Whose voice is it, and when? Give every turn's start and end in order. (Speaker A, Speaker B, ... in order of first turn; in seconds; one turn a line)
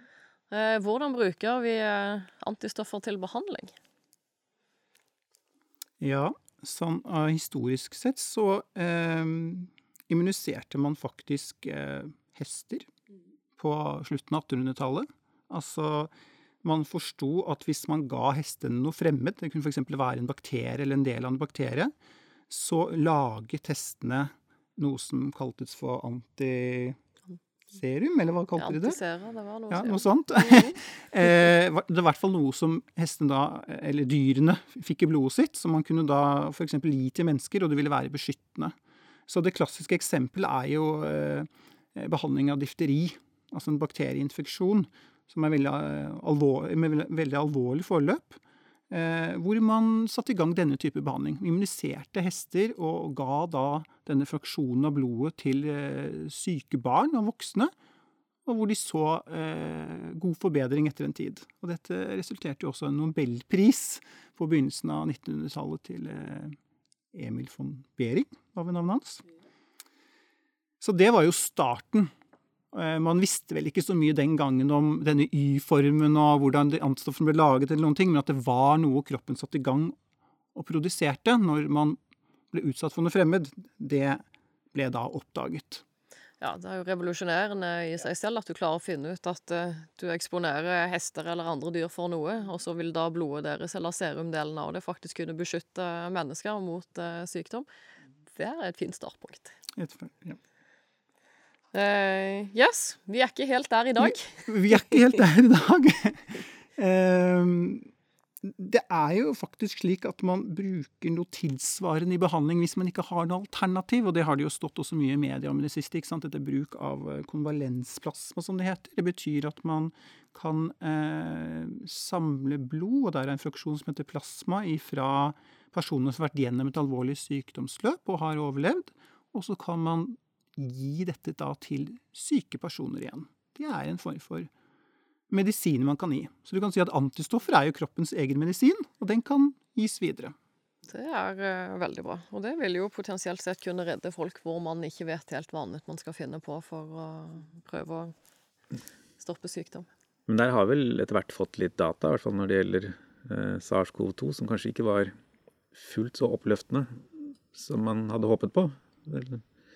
Speaker A: 0.5-3.7
Speaker B: 6.0-12.9
Speaker B: 13.6-16.1
Speaker B: 16.6-21.9
Speaker B: 22.5-27.0
Speaker B: 27.7-29.0
Speaker A: 28.6-30.8
Speaker B: 29.7-38.8
Speaker B: 39.3-57.7
Speaker B: 58.5-66.6
Speaker B: 67.1-69.2
Speaker B: 70.8-72.1
Speaker B: 72.7-80.0
Speaker B: 80.5-82.0
Speaker B: 82.5-85.8
Speaker A: 86.4-97.7
Speaker A: 98.3-99.5
Speaker B: 99.8-100.4
Speaker A: 101.7-104.5
Speaker B: 104.0-107.9
Speaker B: 108.4-134.5
Speaker B: 135.3-140.3
Speaker A: 140.9-148.1
Speaker A: 149.2-149.9
Speaker C: 150.3-155.1
Speaker C: 155.7-159.4